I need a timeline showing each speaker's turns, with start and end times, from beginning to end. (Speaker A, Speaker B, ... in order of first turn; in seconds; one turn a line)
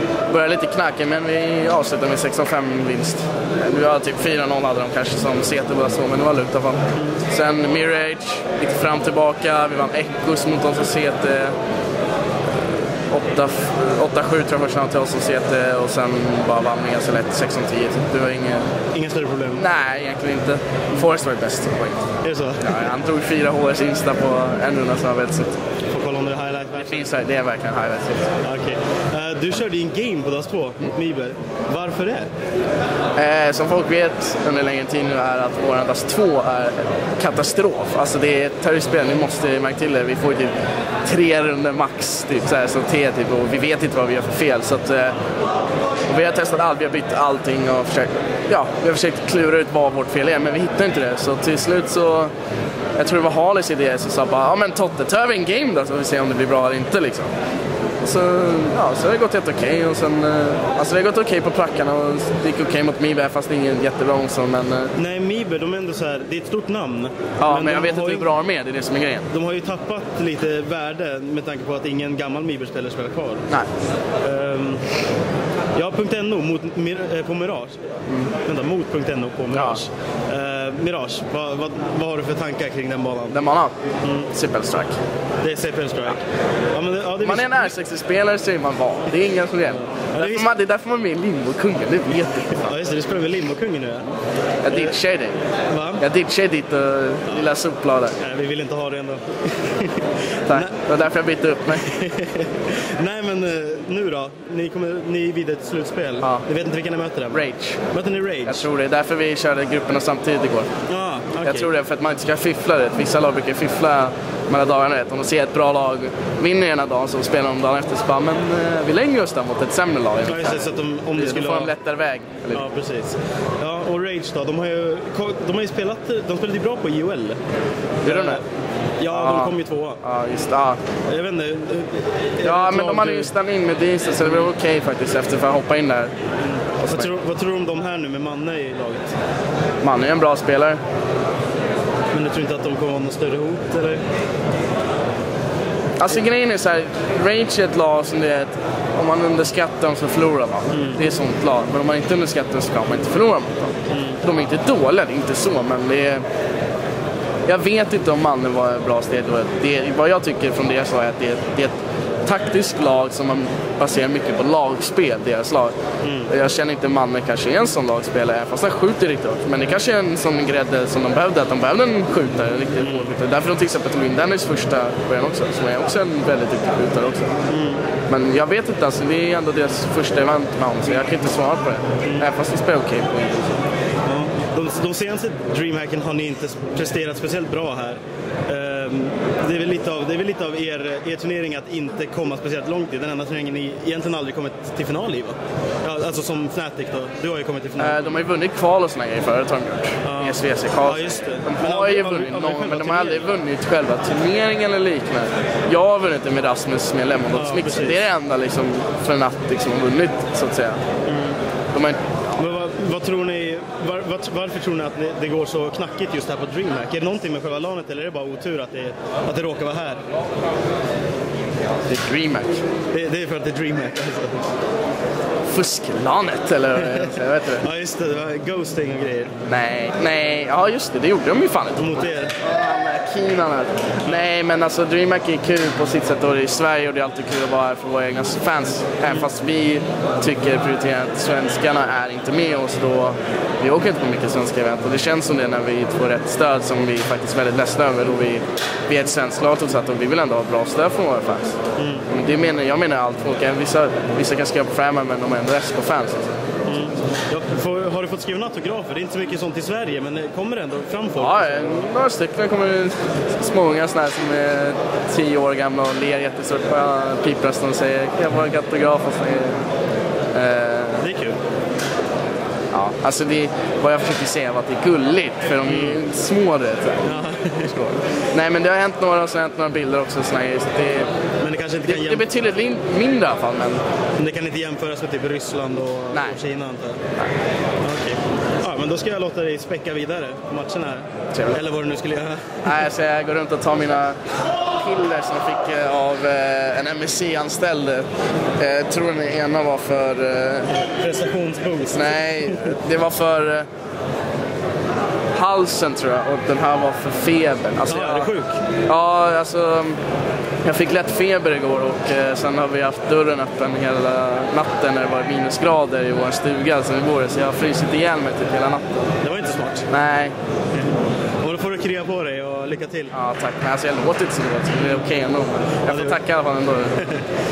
Speaker A: 0.3-11.6
Speaker A: 13.1-18.7
Speaker B: 18.9-19.6
Speaker A: 19.5-22.1
Speaker B: 22.2-22.9
Speaker A: 22.6-25.6
Speaker B: 25.9-27.1
Speaker A: 26.8-28.4
Speaker B: 28.4-32.3
Speaker A: 33.2-45.2
Speaker A: 46.1-52.3
Speaker A: 53.0-57.3
Speaker A: 58.0-64.9
Speaker B: 65.0-68.3
Speaker A: 67.4-69.3
Speaker B: 69.3-73.5
Speaker B: 74.2-74.8
Speaker B: 75.8-77.8
Speaker B: 78.4-83.4
Speaker A: 79.5-79.8
Speaker A: 83.3-83.7
Speaker B: 84.0-84.3
Speaker A: 84.3-85.0
Speaker B: 85.4-87.7
Speaker A: 87.2-92.8
Speaker B: 89.9-90.5
Speaker B: 92.6-94.1
Speaker A: 94.6-95.4
Speaker B: 94.7-95.0
Speaker B: 95.7-96.0
Speaker A: 96.0-98.2
Speaker B: 98.2-100.8
Speaker A: 100.5-101.9
Speaker B: 101.7-108.7
Speaker A: 106.2-106.5
Speaker A: 107.3-107.9
Speaker A: 108.5-110.7
Speaker B: 110.9-111.7
Speaker A: 111.4-122.7
Speaker B: 120.3-121.7
Speaker B: 122.5-127.4
Speaker B: 128.0-128.4
Speaker A: 128.0-128.4
Speaker B: 129.0-130.0
Speaker A: 129.1-130.8
Speaker B: 131.1-133.3
Speaker A: 132.4-136.1
Speaker B: 136.4-139.2
Speaker A: 136.8-137.1
Speaker A: 139.8-140.8
Speaker B: 142.1-144.0
Speaker A: 146.0-156.2
Speaker B: 150.7-151.0
Speaker B: 153.9-154.2
Speaker A: 157.5-165.7
Speaker B: 166.0-166.3
Speaker A: 166.3-177.4
Speaker B: 172.8-173.2
Speaker B: 177.5-177.9
Speaker A: 178.1-183.7
Speaker B: 182.0-182.3
Speaker B: 184.1-198.2
Speaker A: 197.8-210.8
Speaker B: 200.0-203.3
Speaker B: 207.3-208.0
Speaker B: 211.1-211.4
Speaker A: 211.7-212.1
Speaker B: 212.4-220.0
Speaker A: 221.9-222.6
Speaker B: 222.9-224.4
Speaker A: 225.5-227.7
Speaker B: 226.8-229.3
Speaker A: 229.5-251.6
Speaker B: 231.8-232.3
Speaker B: 251.8-252.1
Speaker A: 252.1-256.4
Speaker B: 256.6-261.9
Speaker A: 261.2-269.7
Speaker A: 270.3-271.0
Speaker B: 271.0-271.4
Speaker A: 272.7-281.1
Speaker B: 275.6-276.0
Speaker B: 277.0-278.0
Speaker B: 281.4-282.3
Speaker A: 281.9-283.8
Speaker B: 284.2-287.0
Speaker A: 286.1-286.4
Speaker B: 287.8-292.8
Speaker A: 291.3-291.6
Speaker A: 292.6-300.7
Speaker B: 300.8-302.8
Speaker A: 301.9-303.7
Speaker A: 305.3-308.3
Speaker B: 307.9-308.6
Speaker A: 308.9-310.0
Speaker A: 310.6-319.0
Speaker B: 319.2-319.9
Speaker A: 319.9-320.3
Speaker B: 320.7-323.1
Speaker A: 323.1-327.1
Speaker B: 325.9-326.2